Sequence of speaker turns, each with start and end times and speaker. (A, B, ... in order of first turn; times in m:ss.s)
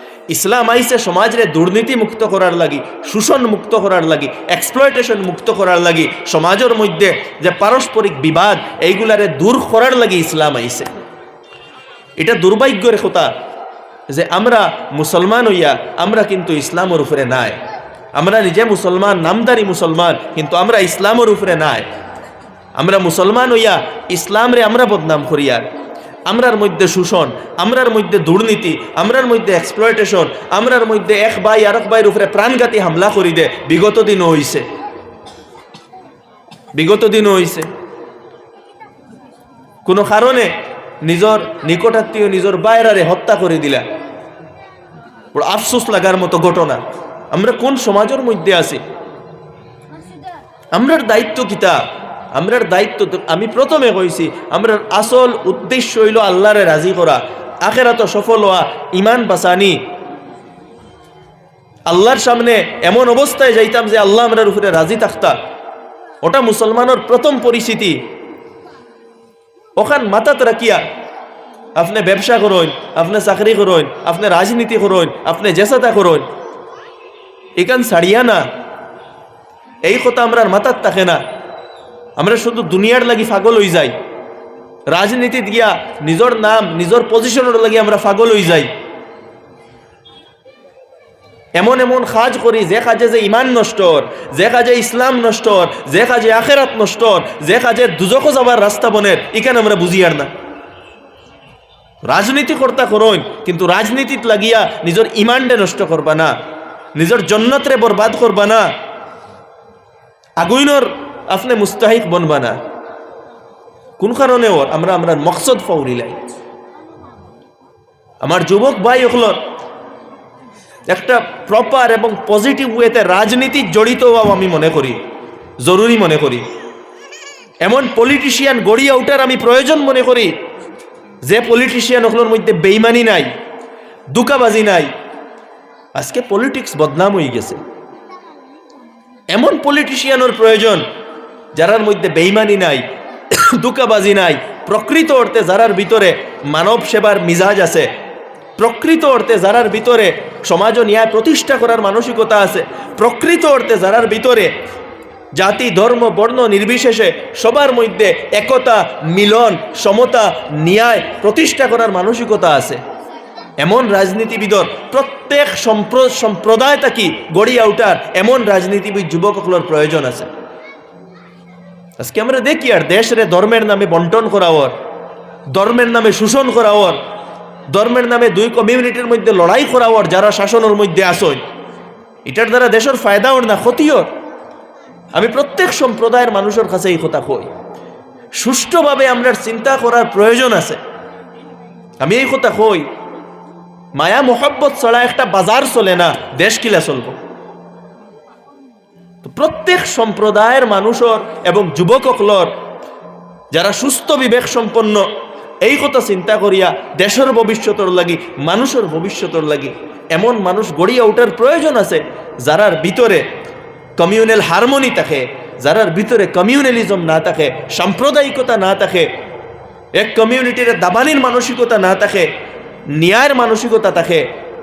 0:00.3-0:10.9 A
0:12.2-0:13.3 A
0:14.1-0:17.6 A
0:18.2-0:21.9 A
0:22.8-0:25.7 A
0:26.3-0:34.7 A
0:36.7-0:37.7 A
0:39.9-0:40.5 A
0:41.0-0:43.8 A
0:45.3-0:48.8 A
0:50.8-0:51.8 A
0:52.4-0:59.8 A
1:01.9-1:05.4 A
1:06.2-1:08.0 A
1:09.8-1:10.8 A
1:11.8-1:16.2 A
1:17.6-1:18.4 A
1:19.8-1:21.2 A
1:22.2-1:23.9 A
1:24.9-1:28.7 A
1:31.6-1:40.3 A
1:42.0-1:46.3 A
1:47.0-1:48.7 A
1:50.4-1:52.6 A
1:54.0-1:56.2 A
1:58.2-1:59.4 A
2:00.9-2:05.0 A
2:05.6-2:06.4 A
2:07.6-2:10.3 A
2:11.2-2:13.3 A
2:14.1-2:14.9 A
2:16.0-2:17.6 A
2:19.3-2:20.8 A
2:21.6-2:27.9 A
2:28.6-2:34.5 A
2:35.4-2:42.8 A
2:43.6-2:50.3 A
2:52.0-2:54.7 A
2:55.5-2:57.0 A
2:57.7-3:01.4 A
3:02.3-3:04.1 A
3:05.1-3:07.5 A
3:08.4-3:10.8 A
3:12.0-3:12.9 A
3:14.0-3:17.2 A
3:19.2-3:22.5 A
3:23.5-3:25.1 A
3:25.6-3:33.2 A
3:34.0-3:39.1 A
3:40.0-3:42.3 A
3:43.0-3:44.3 A